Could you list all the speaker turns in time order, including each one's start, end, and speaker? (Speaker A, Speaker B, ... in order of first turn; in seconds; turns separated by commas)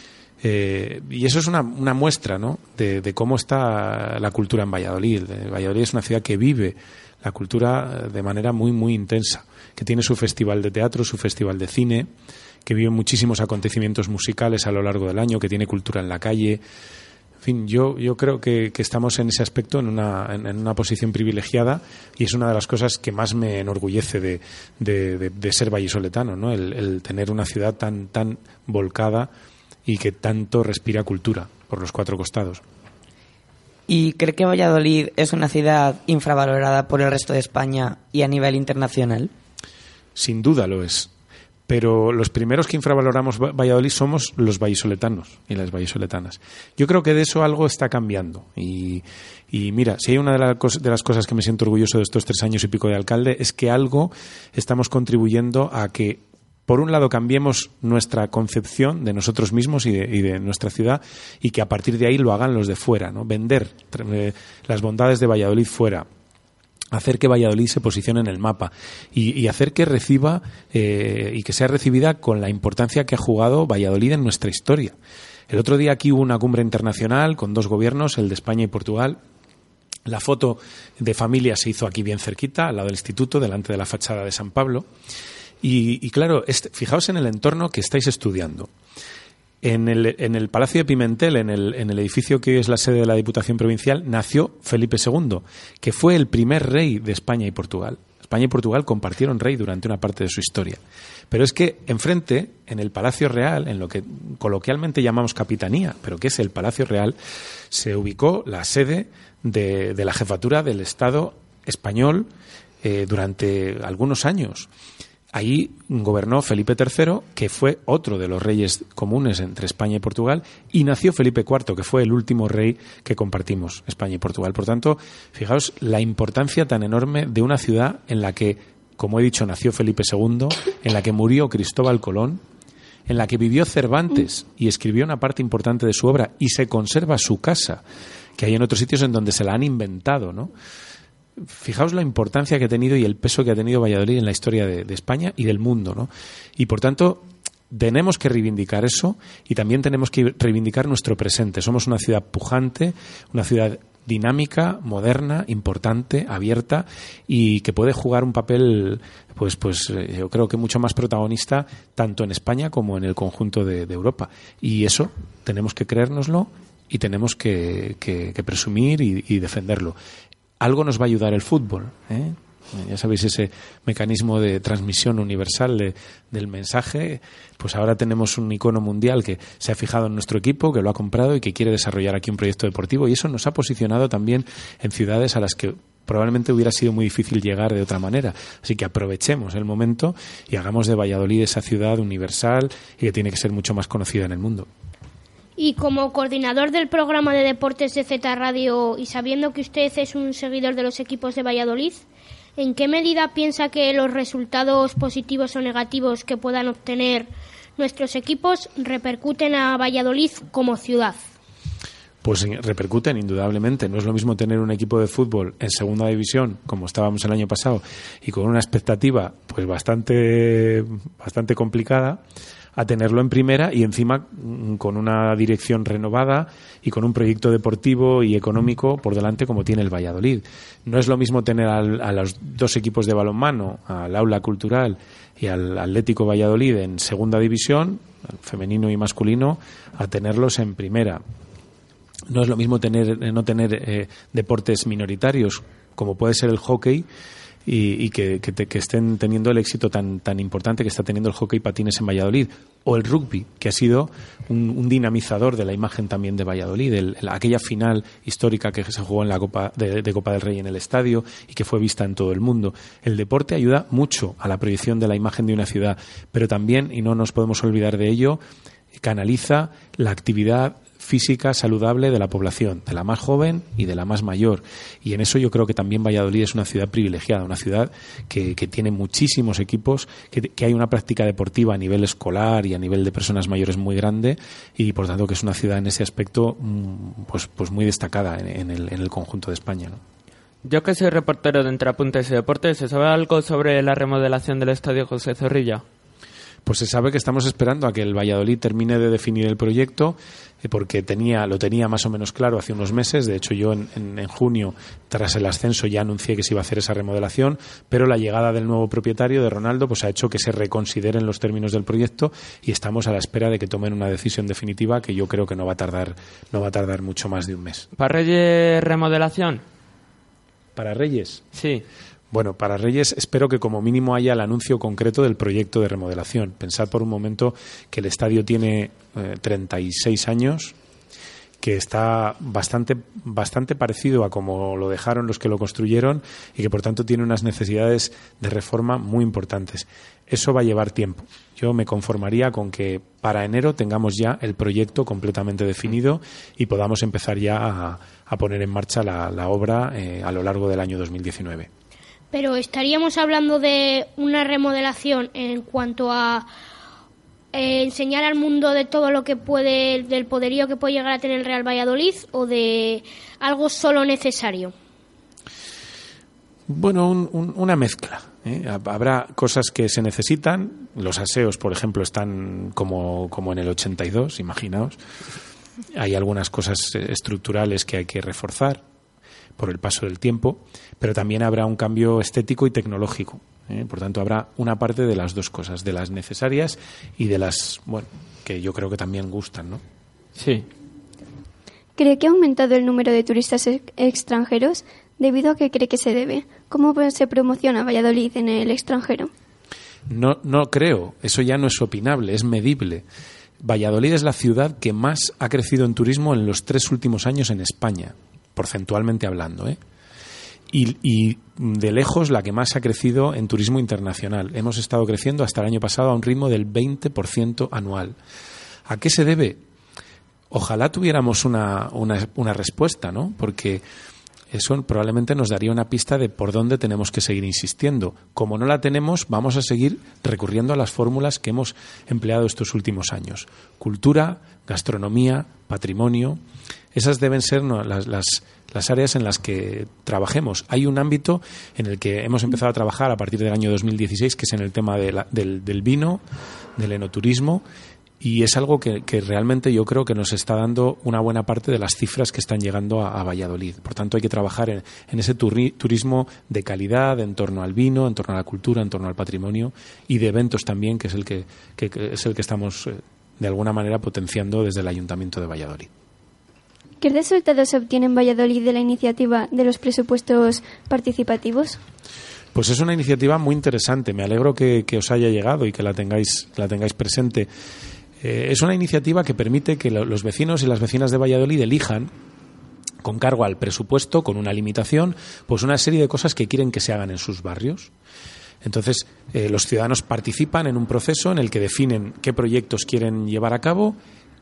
Speaker A: 0.4-12.1, Speaker A: 12.7-16.6, Speaker A: 17.4-29.3, Speaker A: 29.9-32.6, Speaker B: 33.9-39.3, Speaker A: 40.2-41.1, Speaker A: 41.7-66.1, Speaker A: 66.9-75.0, Speaker A: 75.5-79.2, Speaker A: 80.1-84.9, Speaker A: 85.6-88.7, Speaker A: 89.6-107.2, Speaker A: 107.7-112.3, Speaker A: 112.8-114.7, Speaker A: 115.3-132.4, Speaker A: 133.1-137.8, Speaker A: 138.4-140.5, Speaker A: 141.5-170.0, Speaker A: 170.6-194.7, Speaker C: 195.6-202.1, Speaker C: 202.6-211.2, Speaker A: 212.2-222.2, Speaker A: 222.8-241.2, Speaker A: 242.3-247.1, Speaker A: 247.7-268.4, Speaker A: 269.0-290.0, Speaker D: 290.6-295.8, Speaker A: 296.7-317.9, Speaker D: 318.0-319.6, Speaker A: 320.8-321.4, Speaker D: 321.6-321.8, Speaker A: 322.3-330.8, Speaker A: 331.6-351.7, Speaker C: 352.3-356.5, Speaker C: 357.5-364.7, Speaker A: 366.7-375.0, Speaker A: 375.9-378.8, Speaker A: 379.6-389.8, Speaker D: 390.4-390.7, Speaker E: 392.0-399.3, Speaker A: 400.1-403.1, Speaker A: 403.6-409.8, Speaker A: 410.7-418.2, Speaker A: 418.9-419.6, Speaker A: 420.5-423.8, Speaker A: 424.5-436.4, Speaker A: 436.9-446.2, Speaker A: 446.8-447.6, Speaker A: 448.2-465.9, Speaker E: 467.0-471.8, Speaker A: 472.5-477.5, Speaker A: 478.2-482.1, Speaker A: 483.0-487.9, Speaker A: 488.6-494.0